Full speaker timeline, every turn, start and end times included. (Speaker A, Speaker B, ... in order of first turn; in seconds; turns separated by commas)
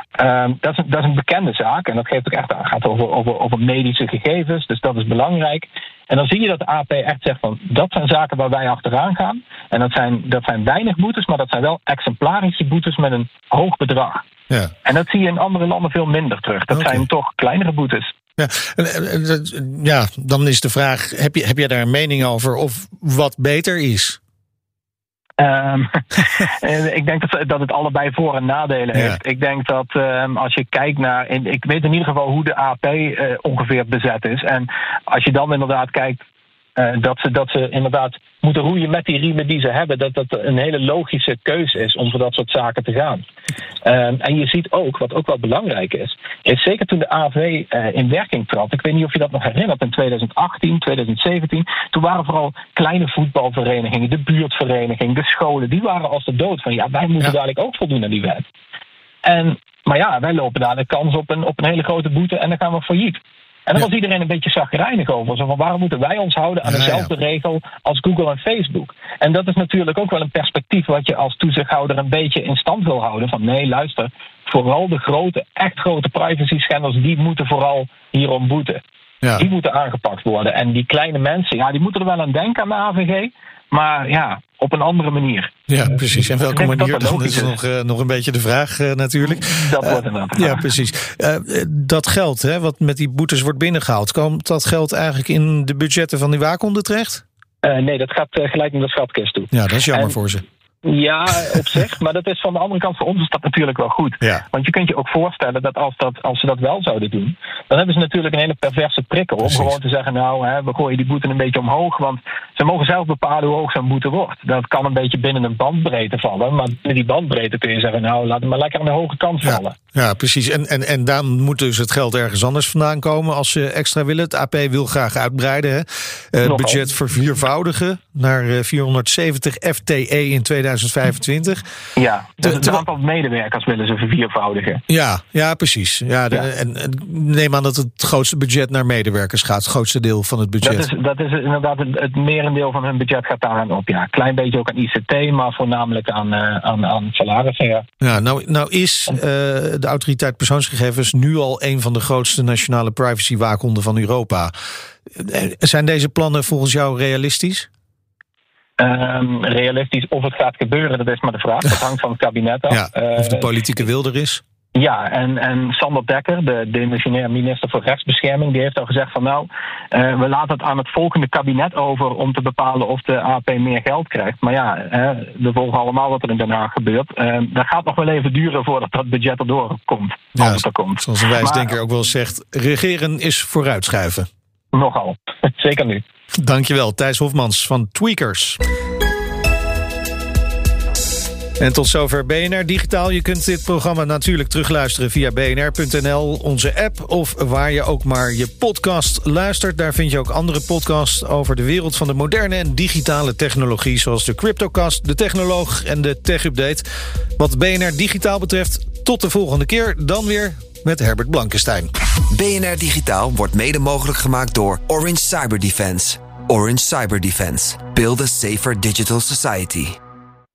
Speaker A: 0.2-14.2, Speaker A: 14.8-18.1, Speaker B: 16.7-17.0, Speaker B: 18.4-24.2, Speaker A: 25.4-36.2, Speaker A: 36.8-43.2, Speaker A: 43.8-58.5, Speaker A: 59.2-78.8, Speaker B: 66.7-67.1, Speaker A: 79.3-87.5, Speaker B: 85.7-97.2, Speaker A: 89.2-90.6, Speaker A: 97.6-100.2, Speaker B: 99.5-100.4, Speaker A: 100.8-119.8, Speaker B: 109.4-109.7, Speaker B: 119.4-131.6, Speaker A: 126.4-126.8, Speaker A: 132.0-134.8, Speaker B: 132.4-132.8, Speaker B: 134.9-140.9, Speaker A: 140.6-147.8, Speaker B: 148.0-154.5, Speaker B: 155.1-157.7, Speaker A: 158.8-163.5, Speaker B: 162.7-164.4, Speaker A: 164.8-181.8, Speaker B: 180.4-184.3, Speaker A: 184.7-186.0, Speaker B: 186.3-188.6, Speaker B: 191.6-206.9, Speaker B: 207.4-211.9, Speaker C: 212.3-220.0